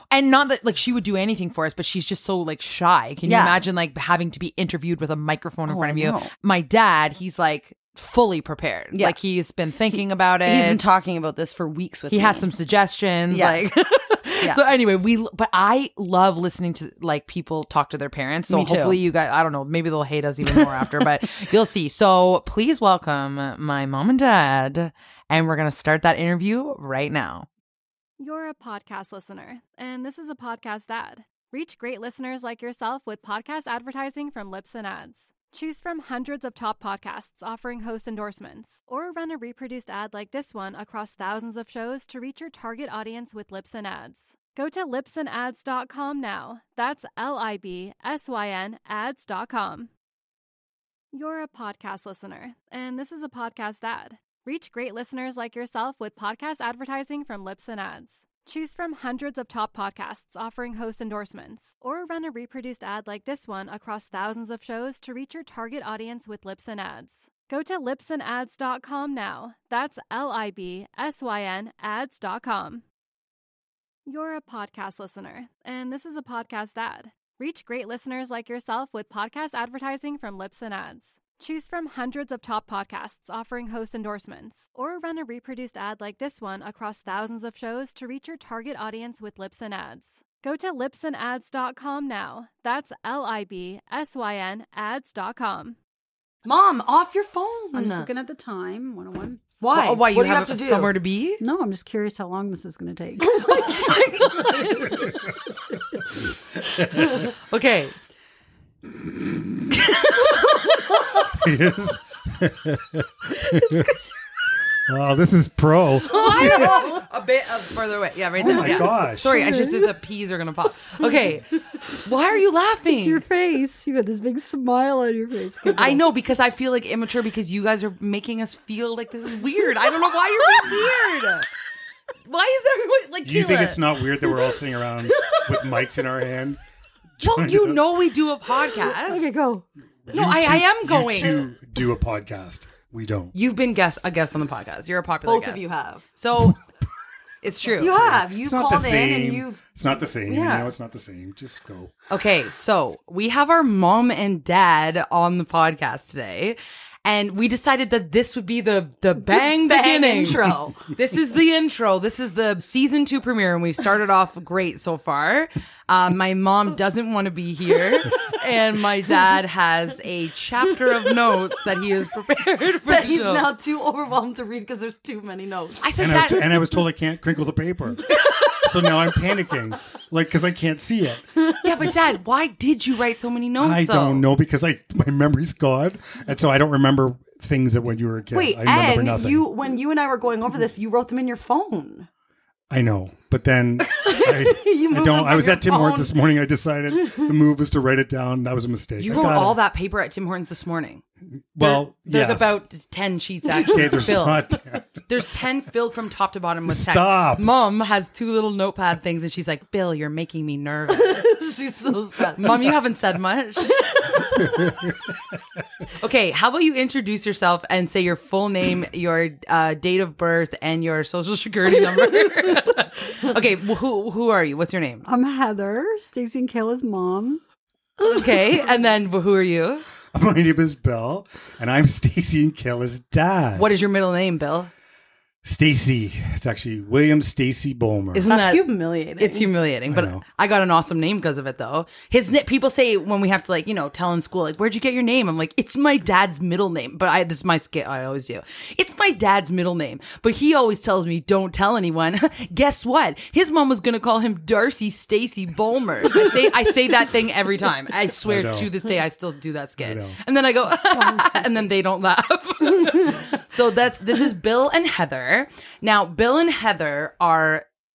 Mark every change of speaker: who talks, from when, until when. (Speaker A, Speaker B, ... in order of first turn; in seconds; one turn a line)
Speaker A: 0.1-10.8
Speaker B: 3.2-3.6
Speaker B: 5.7-6.3
Speaker B: 10.4-12.5
Speaker A: 12.1-27.5
Speaker B: 13.3-13.6
Speaker B: 18.5-19.0
Speaker C: 28.2-49.9
Speaker C: 51.1-72.8
Speaker C: 74.1-95.8
Speaker B: 96.5-98.1
Speaker D: 97.7-99.5
Speaker B: 99.6-100.9
Speaker A: 99.7-101.4
Speaker D: 101.4-105.3
Speaker B: 103.6-104.2
Speaker A: 107.0-107.9
Speaker E: 111.3-114.0
Speaker D: 113.6-114.0
Speaker E: 114.9-116.8
Speaker A: 116.0-123.2
Speaker D: 116.1-117.0
Speaker E: 118.4-119.4
Speaker D: 119.3-119.9
Speaker D: 122.9-126.0
Speaker A: 125.7-131.5
Speaker A: 132.3-133.9
Speaker E: 133.2-136.6
Speaker E: 137.2-137.8
Speaker A: 137.2-139.3
Speaker D: 138.9-139.7
Speaker E: 140.1-143.3
Speaker A: 140.1-141.5
Speaker A: 143.3-145.7
Speaker B: 145.3-146.0
Speaker A: 146.2-146.6
Speaker A: 147.4-148.0
Speaker B: 147.8-149.6
Speaker E: 147.8-151.9
Speaker B: 150.3-150.7
Speaker A: 152.1-173.5
Speaker B: 159.2-160.9
Speaker B: 172.8-175.9
Speaker A: 175.8-176.8
Speaker E: 176.0-181.9
Speaker A: 181.6-184.3
Speaker E: 183.6-189.5
Speaker B: 188.3-192.1
Speaker E: 192.7-199.6
Speaker B: 194.0-196.1
Speaker A: 199.0-201.0
Speaker E: 201.6-202.6
Speaker A: 201.6-211.4
Speaker E: 203.6-204.9
Speaker E: 206.7-207.4
Speaker B: 211.1-212.8
Speaker A: 212.3-214.1
Speaker E: 214.5-214.9
Speaker A: 216.0-225.1
Speaker D: 225.1-227.4
Speaker A: 228.0-229.8
Speaker E: 230.1-233.7
Speaker A: 233.6-234.7
Speaker E: 235.4-238.3
Speaker A: 238.1-238.7
Speaker B: 238.2-239.5
Speaker A: 239.2-267.7
Speaker E: 239.9-240.2
Speaker E: 258.2-258.7
Speaker E: 259.8-260.2